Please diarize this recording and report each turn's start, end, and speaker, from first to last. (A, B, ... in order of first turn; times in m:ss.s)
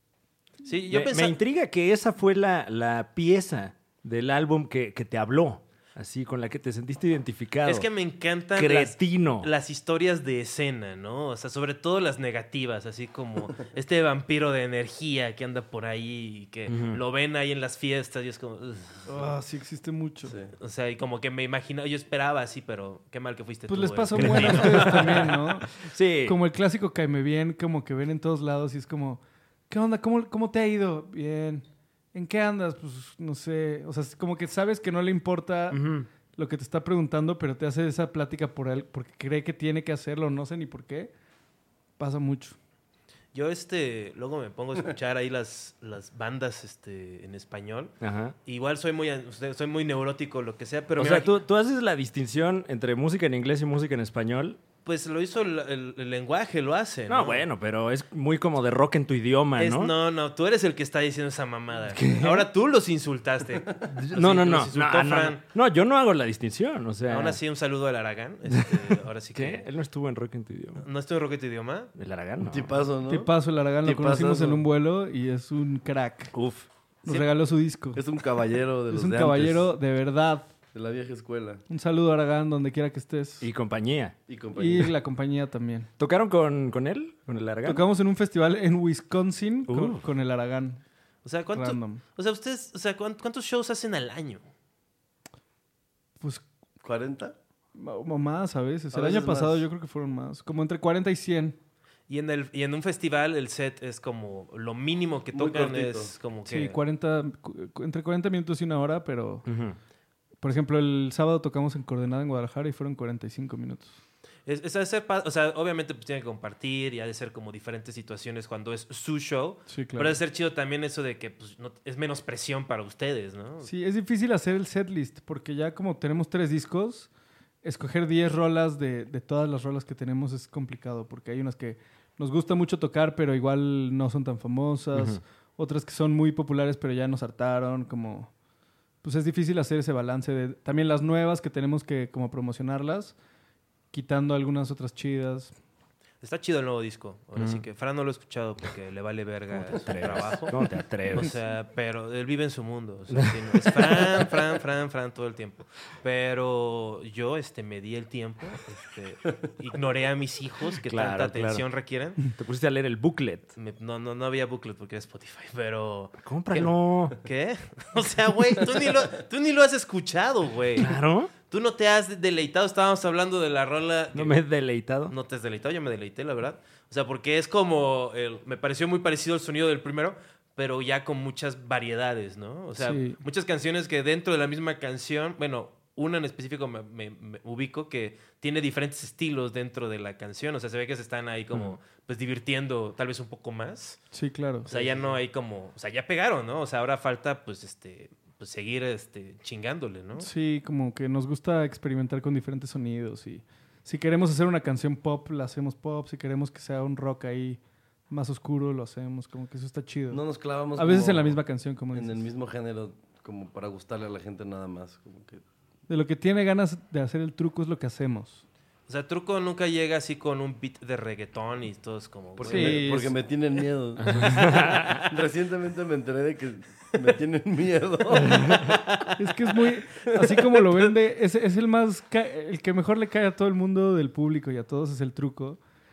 0:00.6-0:01.4 A
0:00.9-0:07.9 B
0:07.6-0:19.1 A
0:08.6-0:09.5 B
0:16.7-0:17.0 B
0:19.1-0:20.4 C
0:20.2-0:20.5 D
0:20.6-0:25.4 A
0:23.7-0:25.7 C
0:24.1-0:26.4 B
0:26.2-0:35.8 C
0:35.7-0:36.1 B
0:36.3-0:41.1 C
0:42.0-0:42.6 C
0:43.3-0:51.3 A
0:48.0-0:48.3 B
0:51.0-0:54.6 B
0:54.8-0:57.5 A
0:57.1-0:59.9 B
0:59.6-1:05.4 A
1:01.9-1:02.5 B
1:03.9-1:07.4 B
1:07.1-1:09.7 A
1:08.5-1:10.8 B
1:10.8-1:11.9 A
1:12.0-1:12.8 B
1:12.4-1:13.3 D
1:13.1-1:16.3 C
1:13.8-1:14.6 D
1:16.3-1:16.7 B
1:17.0-1:18.0 C
1:18.0-1:19.7 D
1:18.9-1:20.5 C
1:20.7-1:21.6 D
1:21.7-1:23.5 C
1:23.4-1:24.2 B
1:24.3-1:24.9 D
1:24.6-1:25.9 C
1:26.0-1:27.8 B
1:27.6-1:30.8 C
1:29.7-1:30.0 B
1:31.2-1:34.4 A
1:31.5-1:32.0 C
1:36.2-1:36.4 C
1:36.8-1:37.4 D
1:37.8-1:41.6 C
1:38.9-1:39.7 D
1:42.1-1:46.8 A
1:45.3-1:46.1 D
1:46.5-1:49.5 C
1:49.5-1:49.8 B
1:50.4-1:54.0 C
1:54.5-2:03.7 A
1:59.7-2:00.2 C
2:03.6-2:07.1 C
2:07.6-2:18.3 C
2:15.0-2:15.2 B
2:19.0-2:23.2 C
2:23.9-2:25.5 C
2:26.2-2:42.3 A
2:27.4-2:27.6 B
2:29.5-2:31.3 B
2:33.2-2:34.2 B
2:40.8-2:41.6 B
2:42.3-2:43.5 B
2:43.6-2:51.0 A
2:46.2-2:47.2 B
2:50.8-2:51.3 B
2:51.5-2:54.4 A
2:54.2-2:55.1 B
2:55.1-3:14.0 A
3:02.8-3:03.2 C
3:14.1-3:14.7 C
3:14.7-3:20.3 A
3:14.7-3:15.2 D
3:20.2-3:30.2 C
3:30.1-3:31.4 D
3:30.8-3:32.2 C
3:31.9-3:35.4 D
3:35.9-3:38.4 C
3:38.9-3:42.8 A
3:42.4-3:48.8 D
3:42.5-3:43.2 C
3:44.0-3:45.1 B
3:48.4-3:48.6 B
3:49.2-3:55.6 C
3:50.0-3:50.8 D